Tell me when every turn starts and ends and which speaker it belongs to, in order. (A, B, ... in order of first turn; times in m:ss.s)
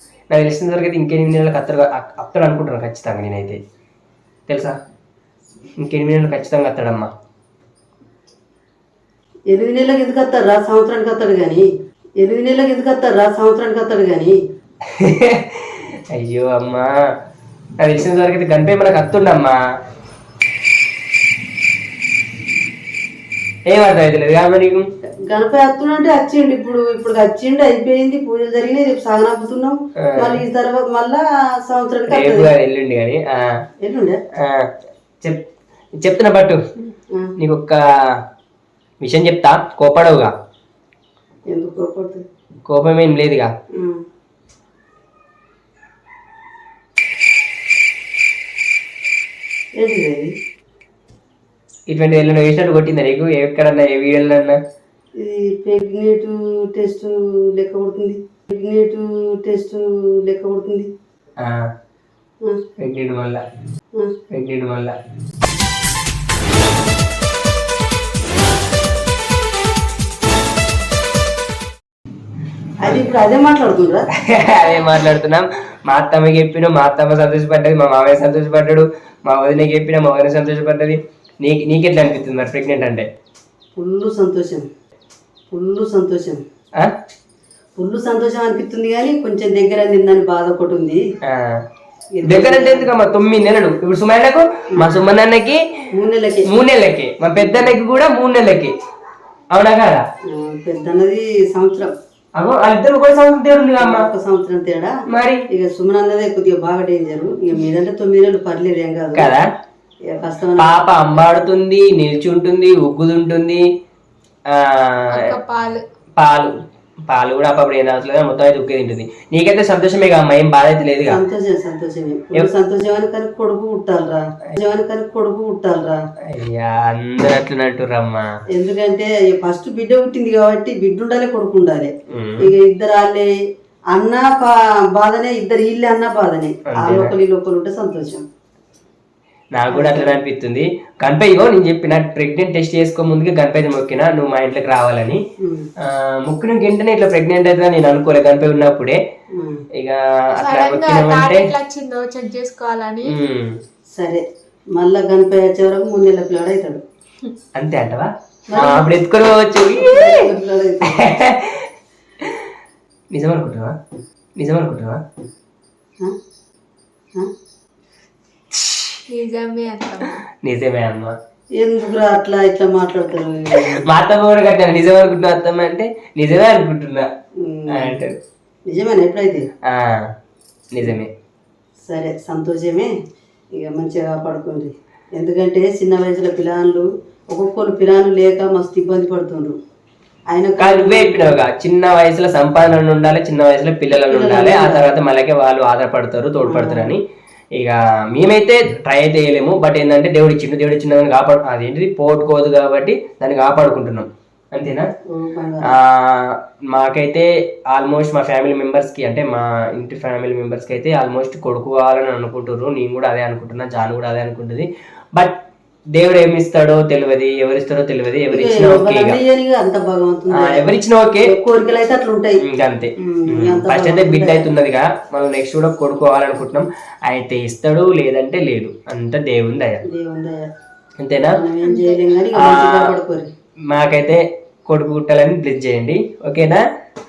0:00.3-0:03.6 A
0:04.5-0:04.8 A
0:05.8-0:07.1 A
0:09.5-0:11.6 B
0:12.2-0:14.4 B
0:15.0-0:16.9 A
0:17.8-0:19.6 A
0:23.7-0:24.8 A
0:25.3-0:32.5 B
0:30.0-0:30.4 A
0:32.1-0:33.4 A
0:33.8-0:34.2 B
0:34.4-0:35.4 A
0:36.0-0:36.6 A
0:37.4-0:38.1 A
0:39.0-0:40.3 A
0:41.5-0:42.2 B
0:42.7-0:43.5 A
0:43.7-0:44.0 B
0:49.8-0:50.3 B
0:51.9-0:54.6 A
0:55.2-1:00.9 B
1:01.4-1:01.7 A
1:02.8-1:03.4 A
1:04.3-1:04.9 A
1:12.8-1:14.0 B
1:12.8-1:13.1 A
1:14.2-1:23.1 A
1:23.8-1:24.6 B
1:25.5-1:26.4 B
1:27.8-1:31.0 B
1:31.2-1:31.6 A
1:32.2-1:32.9 B
1:32.2-1:35.6 A
1:35.9-1:36.6 B
1:36.5-1:38.7 A
1:37.4-1:37.7 B
1:39.5-1:40.0 A
1:40.3-1:41.9 B
1:42.4-1:44.1 A
1:43.8-1:44.9 B
1:45.1-1:45.4 A
1:45.5-1:49.3 B
1:49.2-1:49.4 A
1:50.1-1:51.2 B
1:50.6-1:53.6 A
1:54.5-1:55.2 A
1:55.1-1:55.8 C
1:56.2-1:56.5 A
1:57.1-2:01.2 A
2:01.0-2:06.0 B
2:06.3-2:08.3 A
2:08.5-2:13.3 B
2:12.1-2:12.5 A
2:13.9-2:18.2 B
2:16.7-2:17.1 A
2:19.5-2:25.2 A
2:19.7-2:20.2 B
2:25.4-2:25.7 B
2:25.8-2:29.0 A
2:29.4-2:29.6 B
2:29.8-2:31.5 A
2:30.4-2:33.2 C
2:33.0-2:33.6 A
2:34.0-2:34.2 B
2:34.7-2:36.8 B
2:37.5-2:40.3 A
2:38.5-2:38.9 B
2:39.7-2:41.1 B
2:40.9-2:41.6 A
2:43.1-2:43.7 A
2:44.4-2:45.0 A
2:48.5-2:49.0 A
2:49.1-2:50.2 C
2:50.4-2:51.2 A
2:51.6-2:53.9 B
2:53.6-2:57.0 A
2:57.4-2:58.0 B
2:57.7-2:58.1 A
2:58.7-2:59.4 B
2:59.7-3:00.0 A
3:00.7-3:01.1 A
3:01.9-3:02.9 B
3:03.5-3:09.6 B
3:10.3-3:11.3 B
3:10.6-3:17.0 A
3:13.9-3:14.9 B
3:16.4-3:16.9 B
3:17.6-3:24.9 A
3:25.1-3:25.7 B
3:25.6-3:35.4 A
3:36.0-3:39.2 A
3:38.3-3:42.4 B
3:40.4-3:41.3 A
3:42.4-3:49.8 A
3:43.0-3:44.5 B
3:49.9-3:50.4 B
3:51.0-3:51.4 A
3:51.3-3:53.3 B
3:51.6-3:52.0 C
3:52.4-3:52.9 A
3:53.7-3:56.6 A